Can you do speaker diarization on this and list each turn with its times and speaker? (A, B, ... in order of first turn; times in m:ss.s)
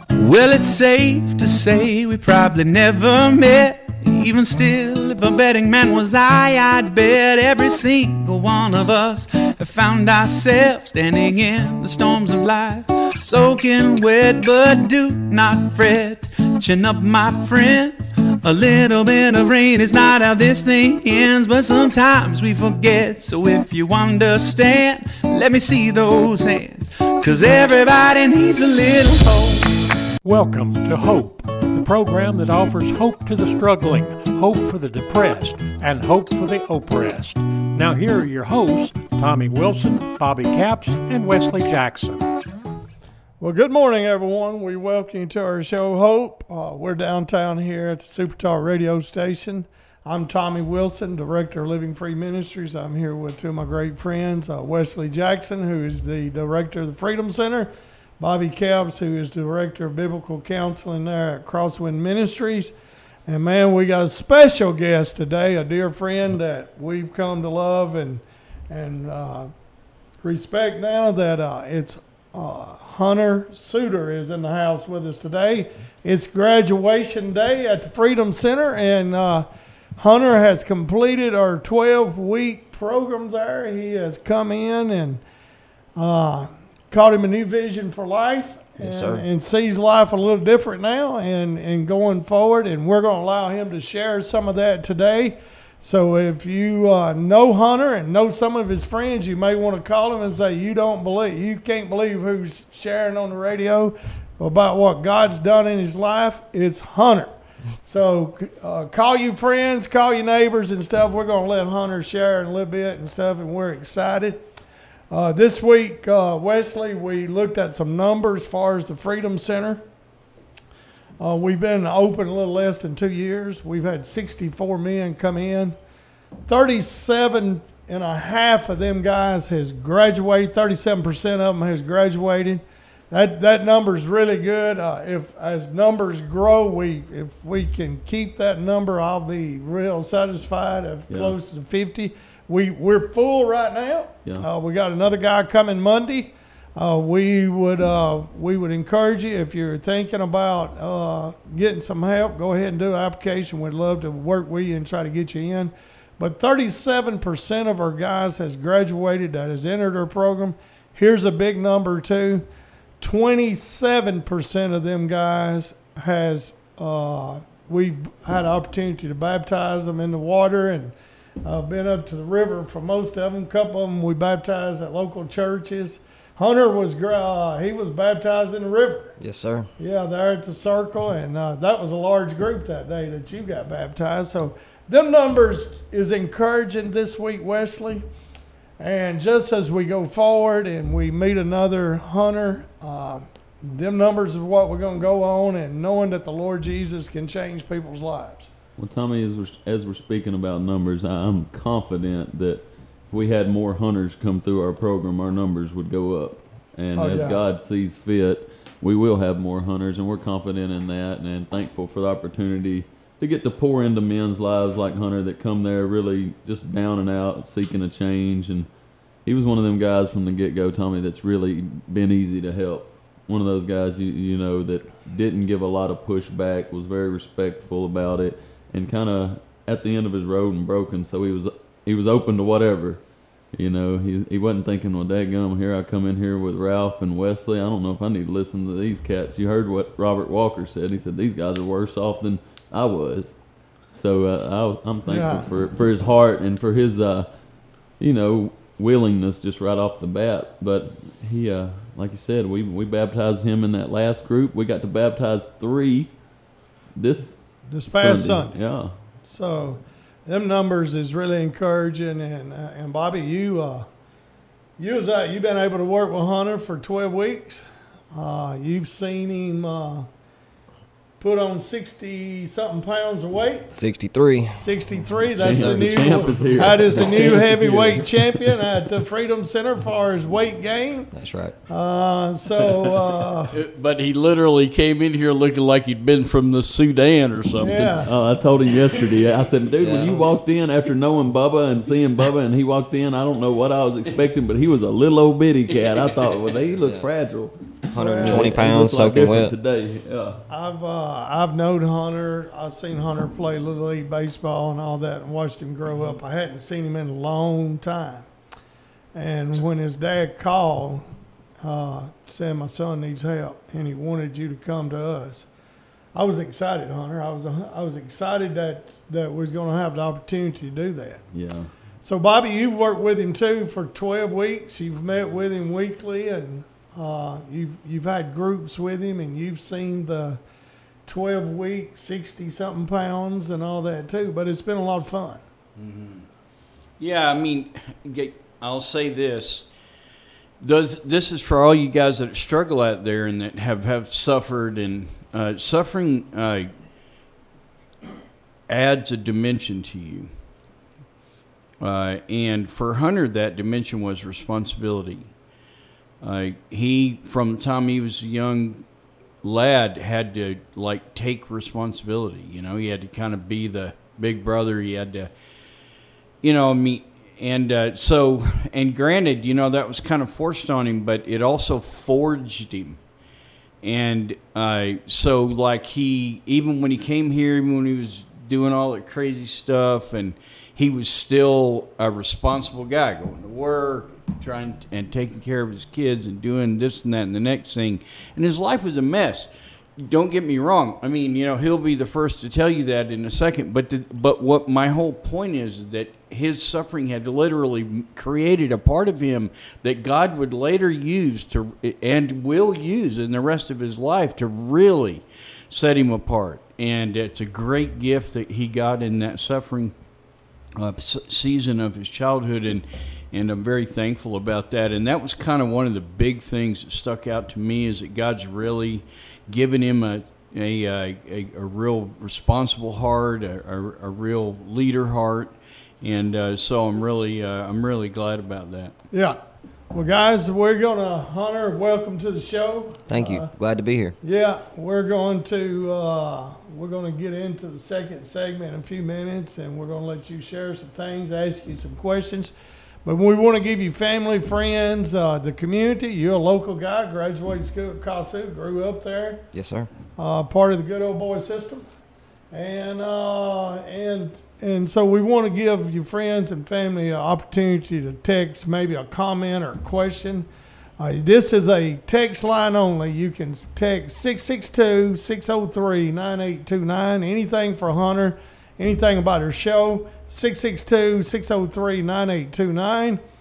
0:00.2-0:29.8 A
0:30.2-0:42.2 B
0:43.4-1:02.7 C
1:03.3-1:09.5 C
1:10.2-1:25.2 C
1:26.0-1:47.3 C
1:28.8-1:29.2 D
1:47.8-1:54.4 C
1:55.1-1:59.8 C
2:01.2-2:05.8 C
2:06.5-2:42.4 C
2:21.1-2:21.3 E
2:43.0-2:59.1 C
2:59.2-2:59.7 D
2:59.8-3:08.0 C
3:08.8-3:18.5 C
3:18.8-3:38.7 E
3:27.0-3:27.4 C
3:39.2-3:53.0 E
3:53.5-4:03.4 E
4:03.9-4:07.3 E
4:05.0-4:05.4 C
4:08.0-4:16.1 E
4:17.0-4:18.9 E
4:17.7-4:18.6 C
4:19.2-4:23.9 C
4:24.8-4:30.1 C
4:31.2-4:33.7 C
4:33.7-4:34.6 D
4:34.6-4:41.1 C
4:35.4-4:35.8 D
4:35.4-4:38.5 E
4:41.1-4:41.6 D
4:41.7-4:43.5 C
4:43.5-4:47.9 F
4:47.6-4:48.1 C
4:47.9-5:00.4 E
4:49.8-4:50.3 D
4:57.9-4:59.5 D
4:58.0-4:58.5 C
5:00.5-5:08.3 C
5:09.1-5:11.0 C
5:11.6-5:15.5 C
5:16.1-5:21.2 C
5:21.3-5:21.7 E
5:22.0-5:30.4 C
5:31.0-5:35.4 C
5:35.8-5:36.3 F
5:37.0-5:39.7 F
5:40.6-5:46.7 F
5:48.7-5:50.3 F
5:51.8-5:55.3 F
5:56.2-5:58.8 F
5:59.4-6:05.3 F
6:06.4-6:13.0 F
6:13.8-6:49.9 F
6:50.8-7:08.9 F
7:09.1-7:09.4 C
7:09.9-7:13.5 C
7:13.1-7:14.2 D
7:14.2-7:22.5 C
7:23.0-7:29.4 C
7:29.5-7:29.9 D
7:30.2-7:31.8 C
7:32.5-7:40.5 C
7:41.0-7:53.2 C